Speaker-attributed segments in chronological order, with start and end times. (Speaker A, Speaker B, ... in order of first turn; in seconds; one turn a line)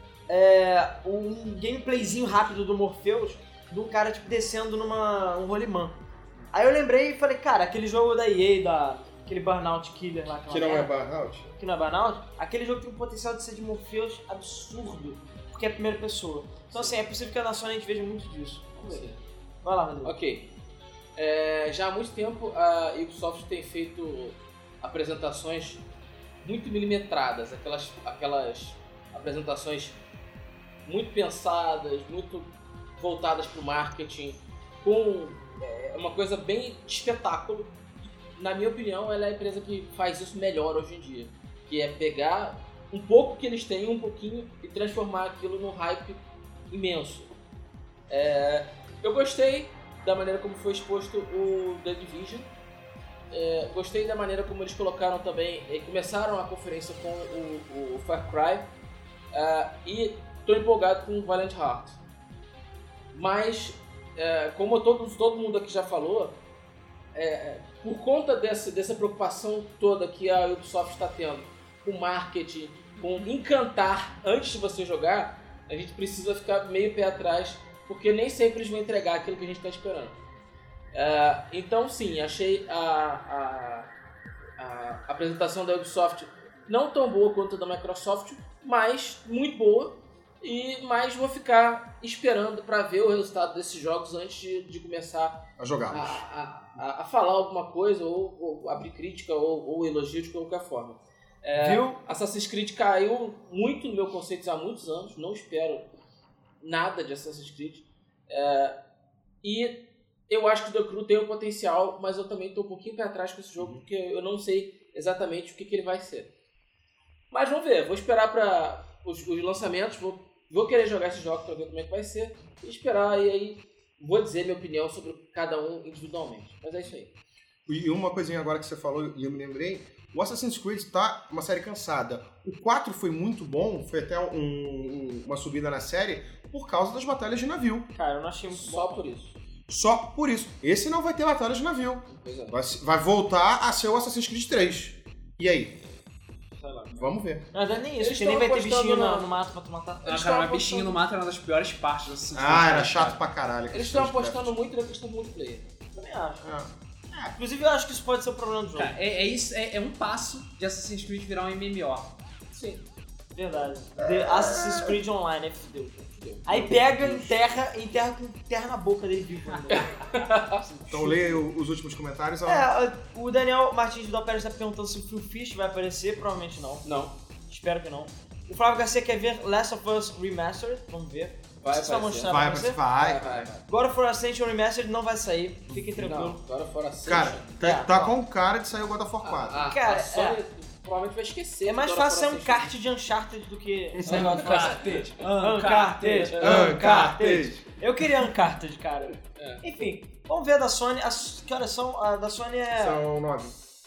Speaker A: 0.3-6.0
Speaker A: 6.5-10.9
Speaker B: 10.5-11.5
Speaker A: 11.6-19.1
Speaker C: 16.7-17.0
Speaker C: 18.8-19.2
Speaker A: 19.6-20.1
Speaker C: 20.0-20.5
Speaker C: 21.1-25.8
Speaker C: 26.4-30.0
Speaker C: 30.8-47.3
Speaker C: 48.1-52.5
Speaker C: 53.3-58.7
Speaker C: 59.3-62.0
Speaker C: 63.1-66.4
Speaker C: 67.1-80.2
Speaker C: 80.9-83.9
Speaker C: 84.6-105.9
Speaker B: 95.6-96.2
Speaker A: 101.5-102.0
Speaker C: 106.6-108.8
Speaker C: 109.4-116.3
Speaker B: 113.6-113.8
Speaker C: 117.3-127.1
Speaker B: 127.7-137.9
Speaker A: 137.9-139.1
Speaker C: 138.5-139.3
Speaker B: 139.7-145.8
Speaker C: 142.1-142.6
Speaker A: 146.6-146.9
Speaker C: 146.6-147.0
Speaker B: 147.0-147.4
Speaker A: 147.5-150.0
Speaker C: 148.0-149.3
Speaker C: 150.0-151.0
Speaker D: 150.0-153.2
Speaker B: 152.3-154.5
Speaker C: 153.7-155.7
Speaker A: 155.9-156.4
Speaker B: 156.4-157.3
Speaker A: 157.3-158.9
Speaker D: 158.7-162.1
Speaker C: 162.5-162.8
Speaker A: 163.3-169.9
Speaker B: 164.4-164.9
Speaker C: 166.1-166.4
Speaker B: 166.5-167.3
Speaker C: 169.7-170.6
Speaker A: 170.7-171.4
Speaker B: 170.9-172.7
Speaker A: 172.4-176.8
Speaker C: 176.8-177.1
Speaker A: 177.5-182.8
Speaker C: 181.6-183.6
Speaker B: 182.2-183.5
Speaker A: 183.7-186.4
Speaker B: 185.7-186.1
Speaker C: 186.0-187.6
Speaker B: 187.0-189.7
Speaker A: 187.6-188.1
Speaker C: 189.2-192.7
Speaker A: 189.6-190.4
Speaker A: 191.6-203.0
Speaker B: 193.9-194.4
Speaker D: 194.0-196.7
Speaker C: 194.5-195.0
Speaker C: 196.2-196.6
Speaker B: 196.4-197.7
Speaker C: 199.3-199.6
Speaker B: 202.7-203.5